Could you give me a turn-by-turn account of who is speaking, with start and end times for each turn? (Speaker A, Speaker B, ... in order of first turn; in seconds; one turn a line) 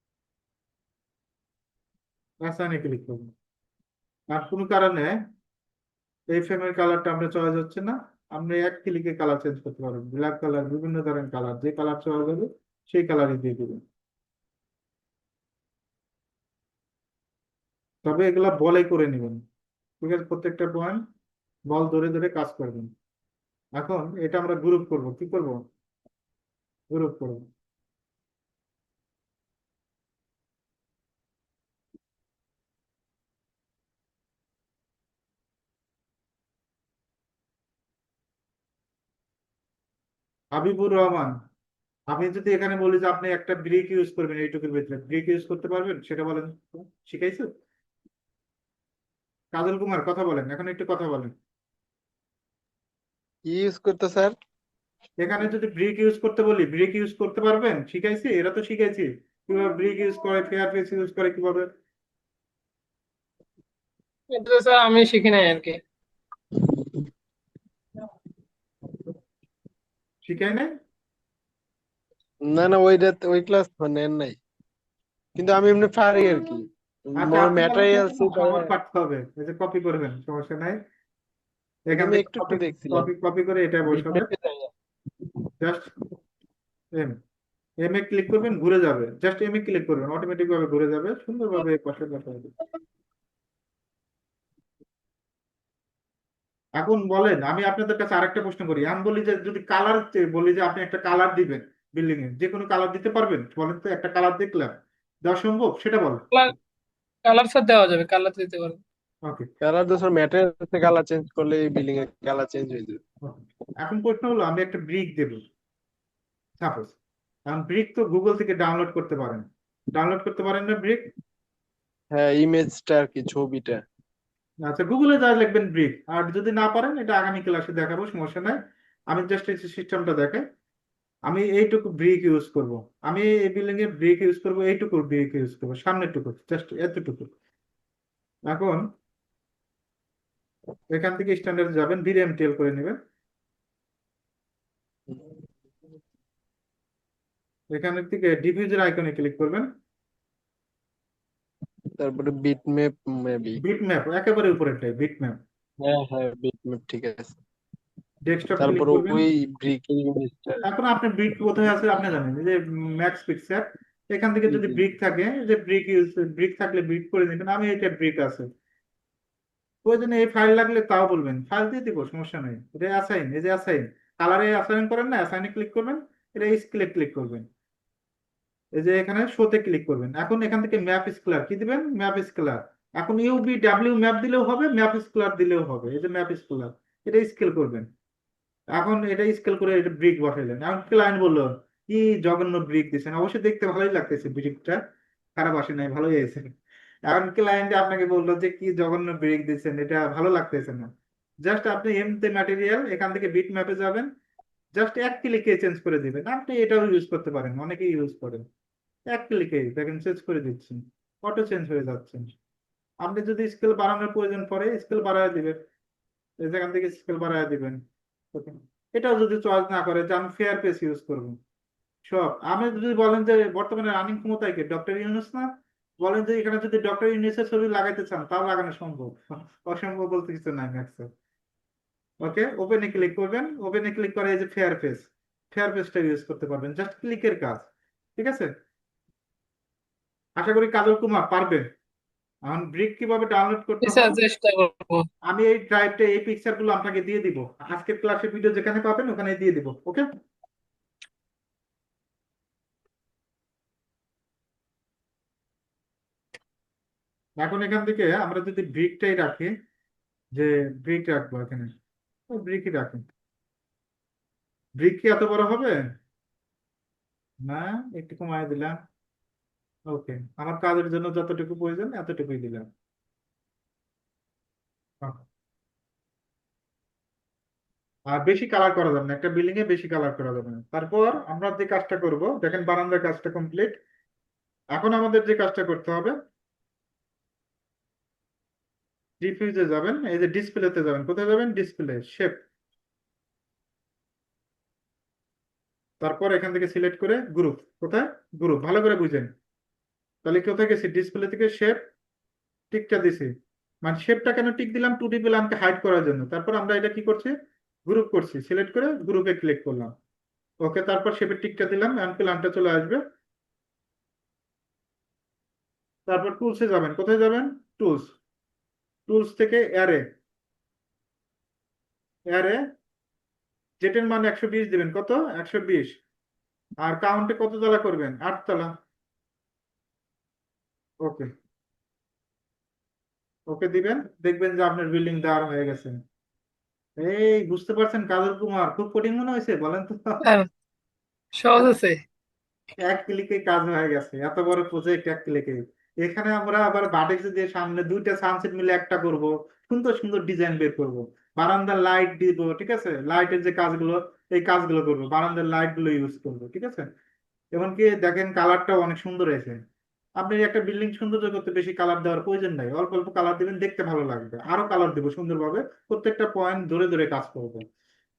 Speaker A: 2.4-3.3
Speaker A: 4.3-5.1
Speaker A: 6.3-13.8
Speaker A: 18.1-19.4
Speaker A: 20.0-21.0
Speaker A: 21.7-22.9
Speaker A: 23.8-25.6
Speaker A: 26.9-27.5
Speaker A: 40.5-41.3
Speaker A: 42.1-47.5
Speaker A: 49.5-51.3
Speaker B: 53.5-54.4
Speaker A: 55.2-61.7
Speaker C: 64.3-65.8
Speaker A: 70.2-70.7
Speaker B: 72.5-74.4
Speaker B: 75.4-78.7
Speaker A: 77.2-80.8
Speaker A: 81.9-84.3
Speaker B: 82.0-83.1
Speaker B: 83.9-84.7
Speaker A: 85.6-85.9
Speaker A: 87.8-92.5
Speaker A: 96.8-104.7
Speaker A: 105.3-106.2
Speaker C: 107.2-108.8
Speaker B: 109.6-113.0
Speaker A: 113.2-115.4
Speaker A: 116.6-117.0
Speaker A: 117.5-121.0
Speaker B: 122.1-123.8
Speaker A: 124.7-128.6
Speaker A: 129.1-130.4
Speaker A: 131.3-137.3
Speaker A: 138.5-138.8
Speaker A: 140.9-143.0
Speaker B: 145.1-145.4
Speaker A: 147.8-149.7
Speaker B: 152.0-153.6
Speaker A: 153.6-155.4
Speaker B: 155.8-157.4
Speaker A: 158.3-159.2
Speaker B: 158.6-160.6
Speaker A: 160.6-168.5
Speaker B: 164.5-164.8
Speaker A: 169.8-177.4
Speaker A: 178.8-187.9
Speaker A: 188.8-194.8
Speaker A: 195.4-196.5
Speaker A: 197.1-200.9
Speaker A: 201.4-204.1
Speaker A: 204.8-208.4
Speaker A: 209.1-212.3
Speaker A: 213.0-215.6
Speaker A: 216.4-217.8
Speaker A: 218.3-221.4
Speaker A: 222.1-225.5
Speaker A: 226.0-231.1
Speaker A: 232.2-238.5
Speaker A: 240.4-241.7
Speaker A: 242.5-244.2
Speaker C: 243.8-245.1
Speaker A: 245.3-250.1
Speaker A: 257.4-259.5
Speaker A: 260.4-261.7
Speaker A: 262.3-263.1
Speaker A: 264.8-265.8
Speaker A: 267.5-268.8
Speaker A: 269.9-272.6
Speaker A: 278.1-283.8
Speaker A: 284.8-286.1
Speaker A: 289.2-292.4
Speaker A: 296.0-299.3
Speaker A: 300.2-301.8
Speaker A: 302.7-303.3
Speaker A: 303.9-307.3
Speaker A: 307.9-309.9
Speaker A: 310.6-313.0
Speaker A: 316.1-318.1
Speaker A: 319.1-320.0
Speaker A: 322.3-322.6
Speaker A: 323.8-326.0
Speaker A: 326.9-328.7
Speaker A: 333.5-335.9
Speaker A: 337.0-340.2
Speaker C: 340.2-340.5
Speaker C: 341.4-342.0
Speaker A: 342.8-356.9
Speaker A: 357.6-359.6
Speaker A: 360.2-367.6